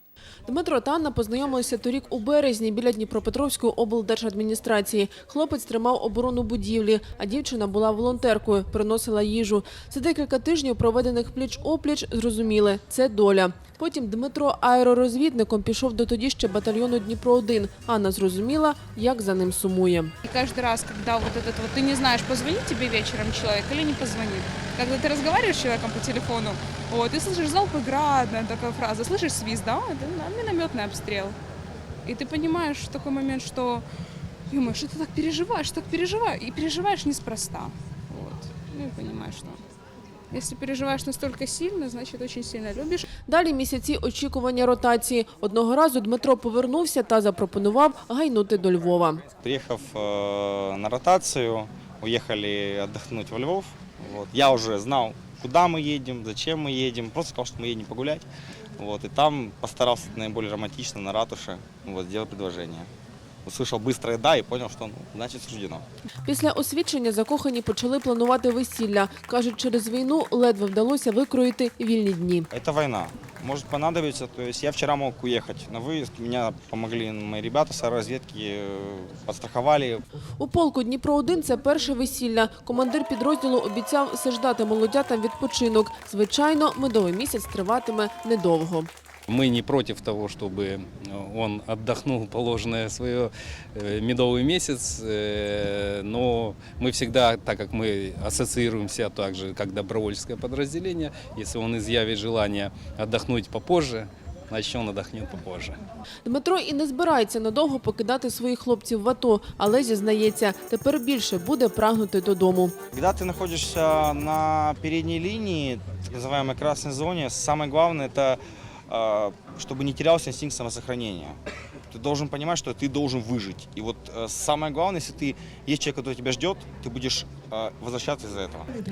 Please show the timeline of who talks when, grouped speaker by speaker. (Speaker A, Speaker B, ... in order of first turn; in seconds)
Speaker A: 0.5-20.1, 43.3-49.2, 66.2-72.5, 80.4-88.9, 106.2-112.7
Speaker B: 20.2-31.4, 32.0-33.8, 34.5-39.6, 40.3-43.0
Speaker C: 49.4-62.9, 63.4-65.8, 72.5-80.0, 112.9-121.4, 121.9-128.7
Speaker D: 89.3-105.8